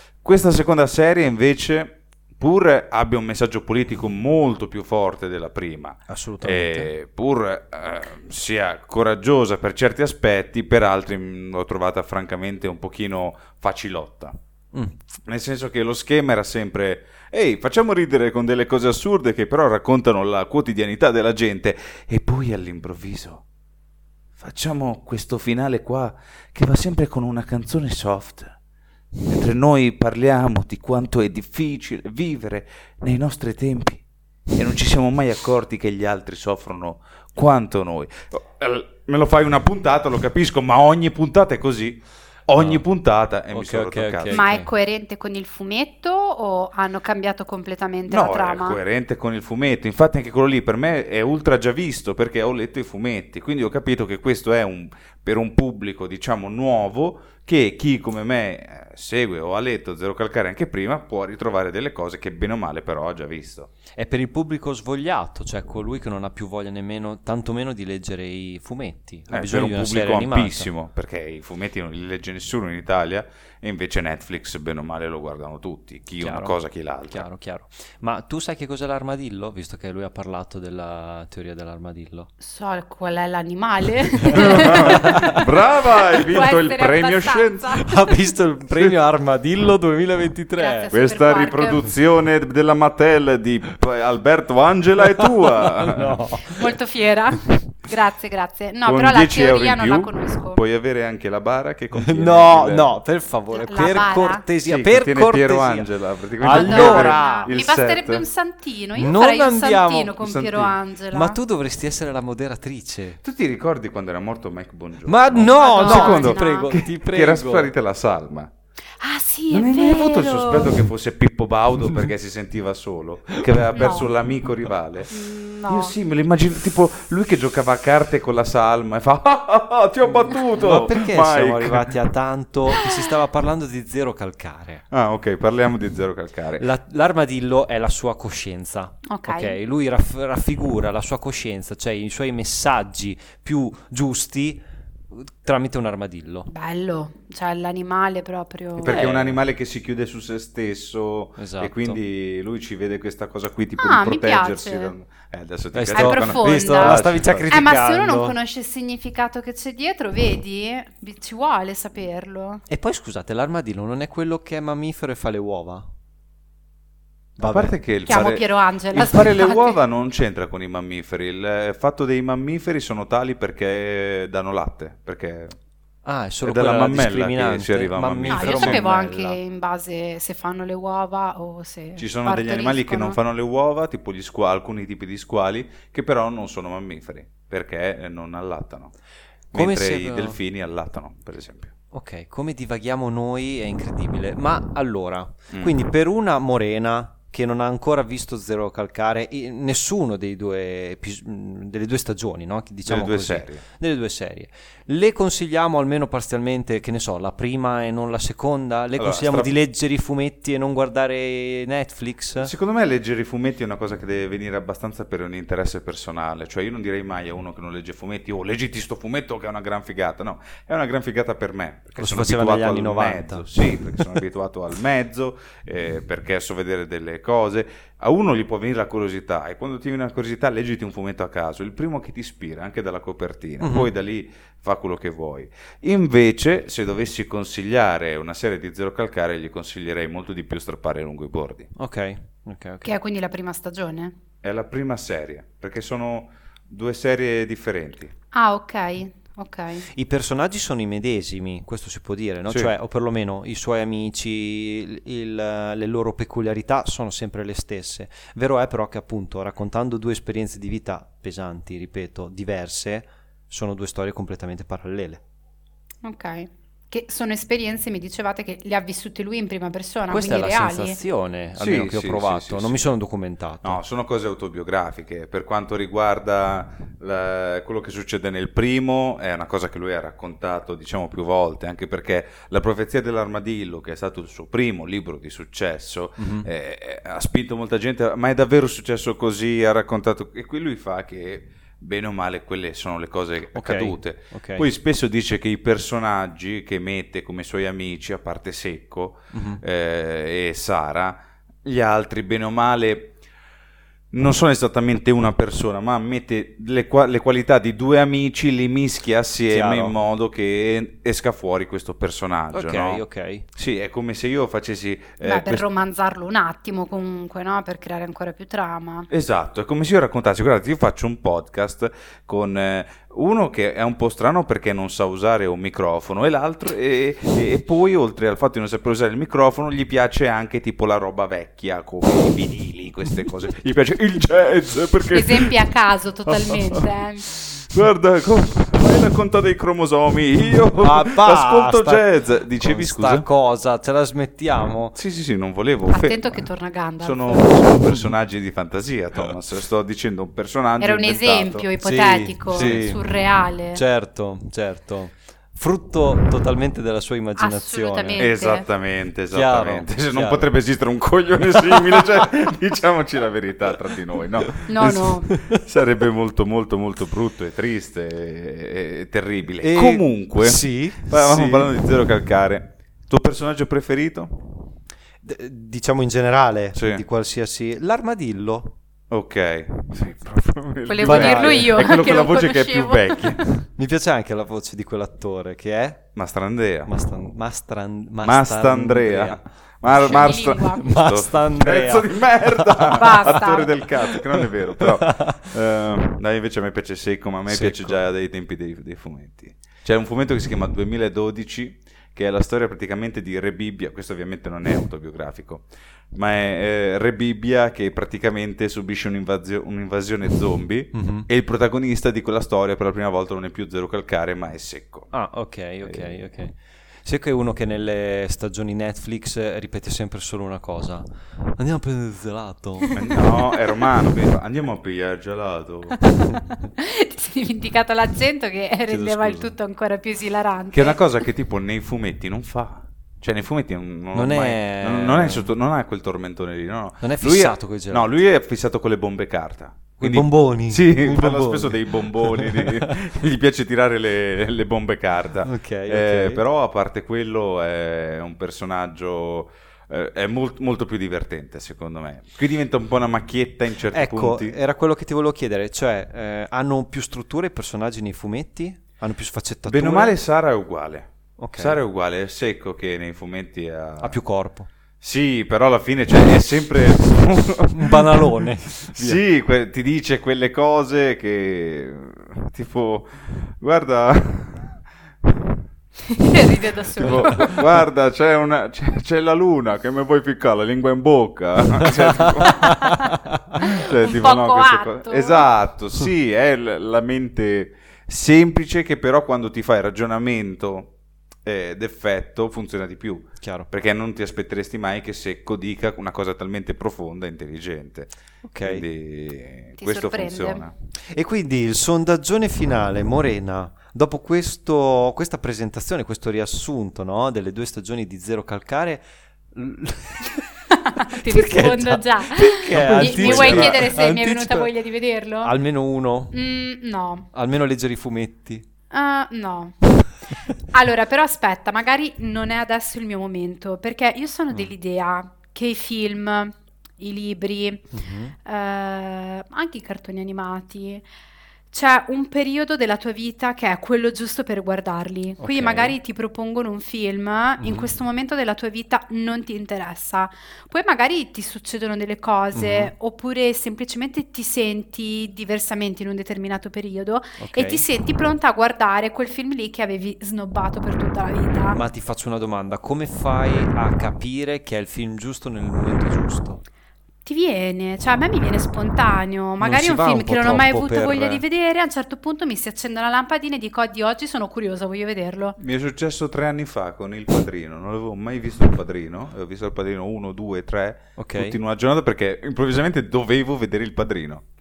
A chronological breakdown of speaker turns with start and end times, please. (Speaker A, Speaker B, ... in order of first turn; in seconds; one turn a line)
Speaker A: 0.2-14.4
Speaker B: 6.1-6.9
Speaker A: 15.3-23.4
Speaker A: 24.4-28.6
Speaker A: 29.3-44.5
Speaker B: 42.6-42.9
Speaker B: 43.5-44.7
Speaker C: 44.3-48.8
Speaker A: 48.1-63.7
Speaker B: 63.9-70.7
Speaker A: 69.3-77.3
Speaker B: 76.2-76.6
Speaker B: 77.1-82.3
Speaker C: 82.4-85.4
Speaker A: 84.3-87.8
Speaker B: 84.6-85.4
Speaker C: 86.1-88.2
Speaker B: 87.7-90.9
Speaker A: 88.7-89.0
Speaker C: 90.6-91.8
Speaker A: 90.9-96.2
Speaker B: 95.2-96.8
Speaker C: 96.5-100.6
Speaker A: 98.8-103.0
Speaker B: 101.9-107.5
Speaker C: 103.5-104.4
Speaker A: 104.7-108.2
Speaker C: 106.4-111.4
Speaker B: 109.0-110.2
Speaker A: 110.2-110.8
Speaker B: 111.1-113.2
Speaker A: 113.2-118.5
Speaker B: 115.0-117.7
Speaker C: 115.5-116.8
Speaker C: 119.0-120.8
Speaker A: 119.5-125.1
Speaker B: 123.5-123.8
Speaker C: 123.8-124.1
Speaker C: 125.1-126.0
Speaker A: 125.7-131.9
Speaker B: 130.1-134.8
Speaker C: 132.7-133.1
Speaker A: 134.9-136.7
Speaker B: 136.6-146.5
Speaker C: 139.1-139.6
Speaker C: 146.5-149.0
Speaker A: 148.8-157.6
Speaker B: 148.8-149.4
Speaker B: 151.4-152.0
Speaker C: 153.8-154.9
Speaker B: 155.7-158.4
Speaker C: 155.9-162.6
Speaker B: 162.7-165.9
Speaker B: 167.4-167.8
Speaker A: 167.4-175.6
Speaker C: 168.1-169.8
Speaker B: 176.1-179.4
Speaker A: 176.4-178.8
Speaker C: 178.3-183.2
Speaker A: 182.0-188.9
Speaker B: 189.5-190.4
Speaker A: 189.5-191.7
Speaker B: 191.9-212.5
Speaker A: 195.5-195.8
Speaker A: 202.9-203.6
Speaker A: 209.0-209.6
Speaker A: 212.4-241.7
Speaker B: 222.0-224.1
Speaker B: 233.6-233.9
Speaker B: 241.8-242.9
Speaker C: 242.8-244.1
Speaker A: 244.4-248.1
Speaker C: 248.3-249.9
Speaker B: 249.9-265.2
Speaker A: 252.5-252.7
Speaker C: 266.0-271.0
Speaker B: 270.1-273.8
Speaker A: 271.6-272.9
Speaker A: 273.6-303.2
Speaker B: 286.2-286.5
Speaker B: 293.6-294.7
Speaker B: 299.3-299.6
Speaker A: 304.1-315.6
Speaker B: 309.5-310.0
Speaker B: 312.5-313.5
Speaker C: 315.2-319.1
Speaker A: 319.1-335.5
Speaker C: 335.1-337.2
Speaker A: 336.3-343.2
Speaker B: 340.8-345.0
Speaker A: 345.0-346.5
Speaker C: 345.9-347.8
Speaker A: 347.0-351.7
Speaker C: 350.8-353.8
Speaker B: 351.8-353.0
Speaker A: 352.5-353.0
Speaker B: 353.7-358.3
Speaker C: 357.4-358.7
Speaker A: 358.2-374.5
Speaker B: 359.3-360.5
Speaker C: 364.7-365.3
Speaker B: 364.8-365.6
Speaker B: 369.6-371.9
Speaker B: 375.2-378.8
Speaker A: 376.8-377.0
Speaker A: 379.1-383.4
Speaker C: 380.9-383.4
Speaker B: 381.0-381.9
Speaker B: 383.5-386.1
Speaker A: 386.2-386.9
Speaker B: 386.9-393.4
Speaker A: 388.2-415.1
Speaker C: 389.9-391.0
Speaker C: 392.9-393.7
Speaker B: 397.5-398.0
Speaker B: 410.9-411.3
Speaker B: 415.1-421.1
Speaker A: 415.8-416.2
Speaker B: 421.6-423.0
Speaker A: 422.9-426.0
Speaker C: 425.9-431.0
Speaker B: 428.9-429.5
Speaker A: 430.7-454.6
Speaker B: 434.1-435.5
Speaker B: 437.0-438.1
Speaker B: 440.0-443.0
Speaker B: 445.4-446.4
Speaker B: 453.9-460.1
Speaker A: 459.7-464.2
Speaker B: 461.4-461.8
Speaker B: 464.0-464.7
Speaker A: 465.0-475.6
Speaker B: 467.7-469.2
Speaker C: 476.1-477.6
Speaker A: 477.0-482.9
Speaker B: 477.1-477.4
Speaker B: 482.4-483.6
Speaker A: 483.6-490.9
Speaker C: 483.6-485.5
Speaker A: 491.4-500.7
Speaker B: 493.4-493.7
Speaker B: 498.4-498.9
Speaker C: 499.8-500.6
Speaker B: 501.1-510.5
Speaker C: 510.8-515.5
Speaker B: 511.0-514.7
Speaker A: 512.7-514.0
Speaker B: 515.4-516.4
Speaker C: 516.3-517.3
Speaker B: 517.3-518.6
Speaker C: 518.9-520.1
Speaker C: 520.7-527.9
Speaker B: 527.9-528.4
Speaker C: 528.5-531.1
Speaker C: 531.7-551.8
Speaker B: 535.4-536.0
Speaker B: 537.6-537.9
Speaker B: 542.5-542.9
Speaker B: 547.4-547.9
Speaker B: 551.7-556.6
Speaker C: 557.3-565.6
Speaker B: 559.6-561.4
Speaker A: 565.6-574.4
Speaker B: 571.2-571.6